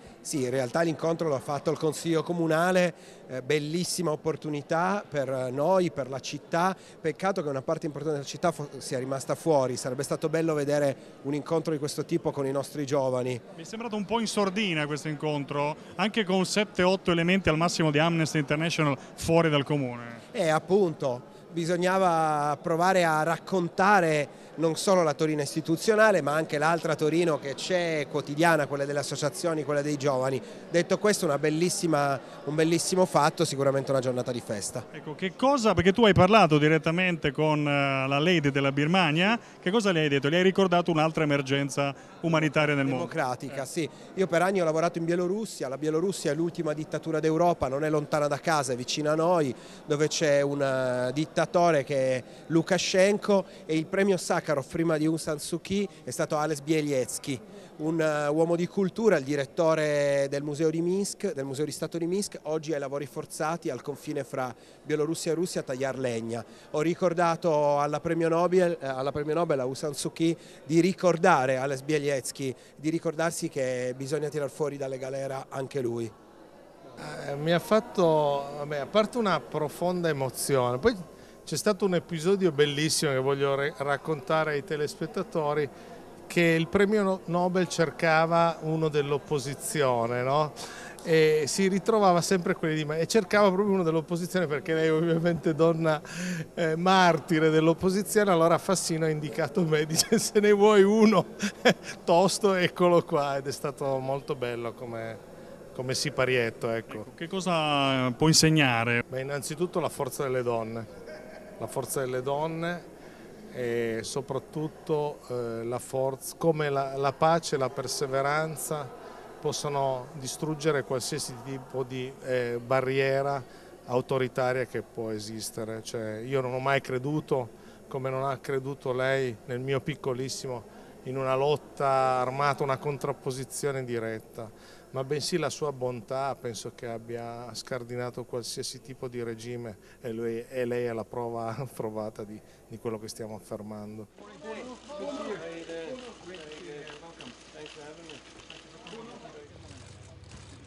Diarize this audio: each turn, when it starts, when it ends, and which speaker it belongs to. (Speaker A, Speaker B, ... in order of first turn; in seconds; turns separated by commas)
Speaker A: 0.2-13.4, Speaker B: 13.6-20.2, Speaker A: 20.3-34.9, Speaker B: 34.9-43.2, Speaker A: 42.8-76.1, Speaker C: 77.0-85.7, Speaker C: 86.3-105.2, Speaker C: 105.8-107.1, Speaker B: 106.9-109.0, Speaker C: 109.1-110.9, Speaker C: 111.6-112.8, Speaker C: 113.5-118.9, Speaker C: 119.4-144.1